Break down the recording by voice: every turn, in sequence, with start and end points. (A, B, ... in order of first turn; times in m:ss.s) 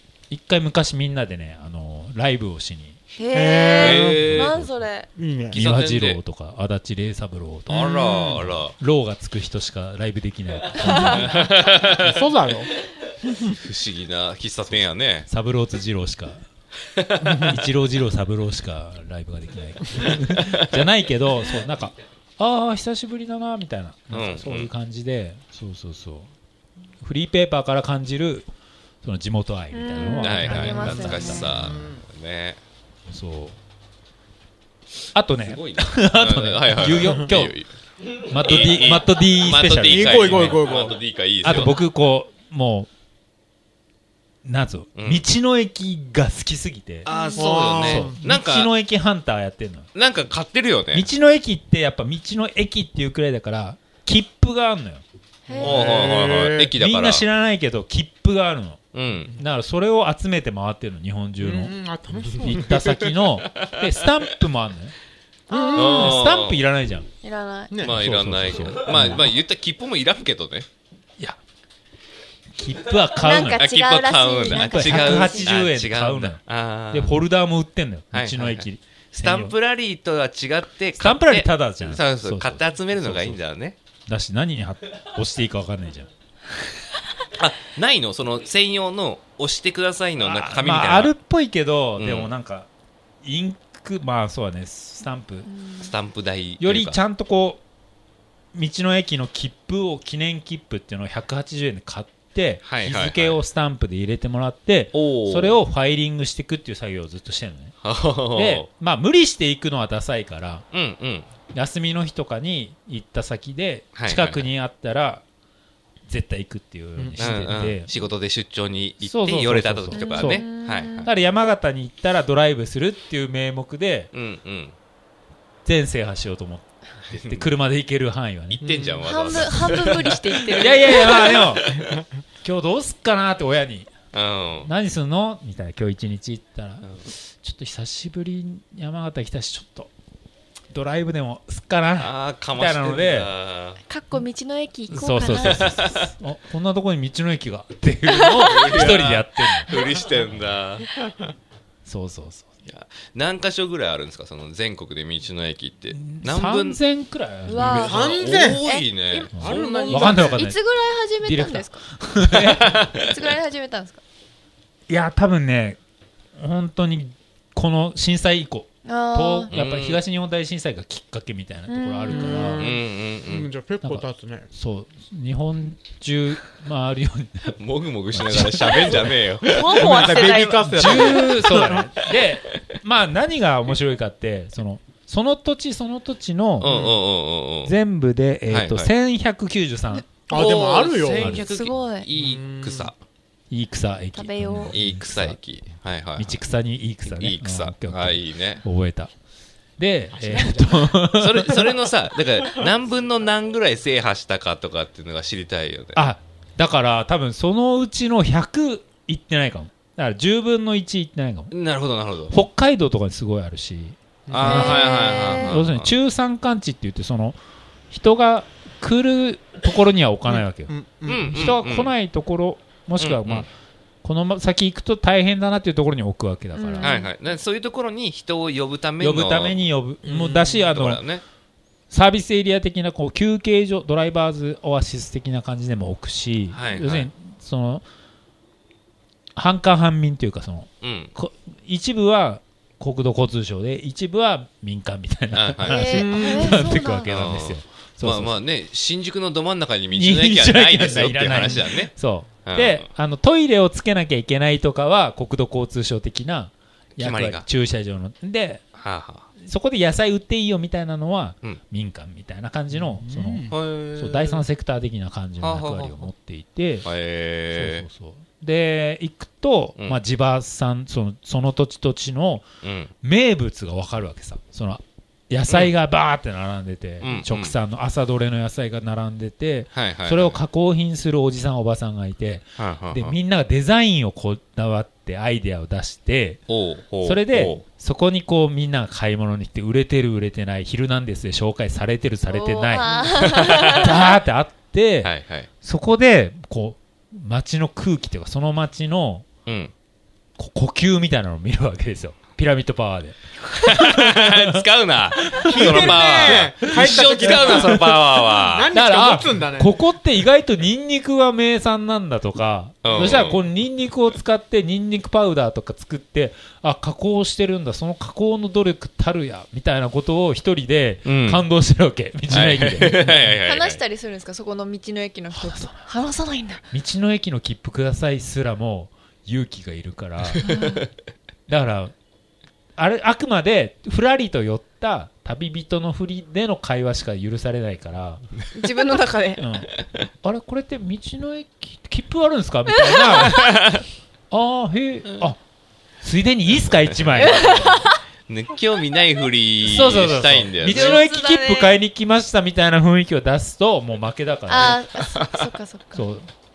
0:00.3-0:03.0 A
0:03.2-0:05.1 B
0:03.3-0:04.4 C
0:03.7-0:04.6 D
0:04.3-0:04.8 A
0:05.2-0:05.6 C
0:05.5-0:06.2 D
0:05.5-0:11.4 A
0:07.7-0:08.8 D
0:07.7-0:08.3 C
0:10.9-0:12.2 D
0:12.0-0:12.7 C
0:13.6-0:15.3 D
0:15.3-0:16.4 A
0:16.9-0:17.5 D
0:17.3-0:26.3 A
0:24.1-0:24.7 D
0:27.0-0:28.5 A
0:29.0-0:31.6 A
0:29.7-0:31.5 B
0:30.1-0:32.6 D
0:31.5-0:32.0 C
0:33.1-0:33.6 A
0:35.1-0:37.6 A
0:35.4-0:37.7 D
0:38.2-0:40.7 A
0:38.4-0:41.8 D
0:39.8-0:41.0 C
0:41.4-0:42.9 A
0:44.4-0:47.1 A
0:45.0-0:45.2 D
0:47.0-0:48.7 D
0:47.1-0:47.6 B
0:47.4-0:48.2 C
0:47.8-0:49.9 A
0:49.9-0:51.1 D
0:50.9-0:55.0 A
0:55.5-0:56.0 B
0:55.5-0:56.7 C
0:55.6-0:57.2 D
0:56.8-1:04.9 A
0:58.9-0:59.4 D
1:01.4-1:03.0 C
1:05.5-1:06.0 B
1:05.5-1:06.2 C
1:05.7-1:06.6 D
1:05.8-1:07.1 A
1:07.2-1:07.8 B
1:07.7-1:08.0 C
1:07.8-1:10.7 D
1:07.9-1:09.3 A
1:12.6-1:13.7 A
1:13.1-1:15.5 B
1:13.6-1:17.2 D
1:14.5-1:19.5 A
1:18.1-1:23.8 D
1:21.0-1:23.4 A
1:24.1-1:26.1 A
1:27.4-1:31.1 D
1:30.2-1:32.7 A
1:32.0-1:32.3 D
1:33.2-1:35.5 A
1:35.4-1:35.9 B
1:35.8-1:37.0 D
1:36.6-1:37.6 A
1:38.5-1:47.7 A
1:42.6-1:43.4 D
1:44.9-1:45.6 D
1:47.8-1:48.7 D
1:48.3-1:50.6 A
1:50.7-1:51.3 D
1:51.5-1:55.2 A
1:53.9-1:54.4 D
1:56.1-1:57.9 A
1:57.0-1:57.5 C
1:57.2-2:01.1 D
1:59.0-2:00.5 A
1:59.9-2:01.1 B
2:01.0-2:04.1 A
2:04.1-2:04.7 D
2:05.6-2:08.7 A
2:07.1-2:07.5 D
2:08.6-2:11.8 D
2:08.6-2:09.2 C
2:09.0-2:11.2 B
2:10.6-2:11.7 A
2:12.4-2:13.9 A
2:14.1-2:14.7 D
2:14.6-2:19.9 A
2:20.7-2:23.3 A
2:22.0-2:23.8 D
2:23.9-2:25.7 B
2:24.9-2:29.8 A
2:25.3-2:26.1 D
2:28.1-2:28.4 B
2:28.4-2:30.8 D
2:31.8-2:32.5 A
2:32.6-2:36.8 D
2:35.9-2:37.9 A
2:37.5-2:41.8 B
2:37.6-2:38.6 C
2:37.6-2:40.4 D
2:39.3-2:40.6 A
2:41.2-2:42.8 A
2:42.5-2:42.9 D
2:42.6-2:44.0 B
2:44.9-2:45.8 A
2:46.4-2:52.7 A
2:48.8-2:49.5 B
2:49.5-2:50.0 D
2:51.7-2:52.6 B
2:52.1-2:54.5 C
2:52.6-2:53.5 D
2:53.8-2:57.6 A
2:57.6-3:00.3 D
2:58.1-2:59.2 A
2:59.4-3:01.3 B
2:59.7-3:01.8 C
3:00.7-3:06.7 A
3:06.6-3:07.8 D
3:06.6-3:06.9 C
3:07.6-3:10.5 A
3:08.5-3:08.9 D
3:10.3-3:11.4 C
3:10.3-3:13.0 D
3:11.2-3:11.4 A
3:11.4-3:12.1 B
3:12.2-3:12.9 C
3:13.5-3:15.4 A
3:14.1-3:14.8 B
3:14.7-3:16.4 D
3:16.2-3:19.1 A
3:17.0-3:18.6 D
3:19.8-3:21.8 A
3:20.1-3:21.0 C
3:21.1-3:26.0 D
3:25.9-3:31.5 A
3:31.5-3:32.4 D
3:32.3-3:37.4 A
3:34.3-3:34.8 C
3:34.3-3:35.9 D
3:34.4-3:35.6 B
3:37.9-3:40.7 A
3:40.2-3:41.5 C
3:41.0-3:41.9 D
3:41.3-3:43.5 A
3:43.0-3:43.5 D
3:44.0-3:47.0 A
3:46.5-3:47.1 B
3:46.8-3:49.6 D
3:49.0-3:51.0 A
3:50.0-3:50.7 C
3:50.7-3:51.2 D
3:51.9-3:57.8 A
3:56.5-3:57.1 D
3:59.3-4:08.4 A
4:00.8-4:01.1 D
4:05.3-4:06.0 D
4:05.6-4:07.1 B
4:05.9-4:06.6 C
4:07.0-4:11.9 D
4:09.9-4:18.6 A
4:12.4-4:12.9 D
4:17.0-4:17.4 D
4:18.7-4:19.2 D
4:19.4-4:26.9 A
4:22.7-4:23.5 C
4:23.5-4:24.4 D
4:25.4-4:26.1 D
4:26.8-4:27.9 D
4:27.5-4:32.4 A
4:32.6-4:32.9 D
4:33.0-4:46.4 A
4:37.0-4:37.6 D
4:39.7-4:40.4 D
4:42.6-4:43.2 D
4:46.5-4:47.6 D
4:47.0-4:52.9 A
4:52.3-4:54.2 B
4:53.1-4:53.8 D
4:53.6-4:55.1 A
4:55.0-4:55.5 D
4:55.6-4:59.3 A
4:59.4-4:59.7 D
5:00.4-5:04.6 A
5:03.6-5:08.8 D
5:05.2-5:08.1 A
5:05.4-5:07.9 C
5:08.5-5:09.8 C
5:08.7-5:23.4 A
5:12.8-5:13.4 D
5:21.0-5:21.4 D
5:22.3-5:23.8 D
5:23.4-5:26.6 B
5:25.3-5:25.9 A
5:26.7-5:30.6 A
5:30.4-5:30.8 B
5:30.5-5:30.8 D
5:31.5-5:31.9 A
5:32.8-5:38.2 A
5:38.5-5:39.4 B
5:39.4-5:43.6 A
5:43.3-5:43.8 D
5:44.3-5:45.4 A
5:46.0-5:47.9 A
5:47.2-5:48.0 B
5:48.3-5:51.0 D
5:49.6-5:54.9 A
5:50.6-5:51.8 B
5:54.5-5:56.0 B
5:55.2-5:55.5 D
5:55.9-5:56.3 A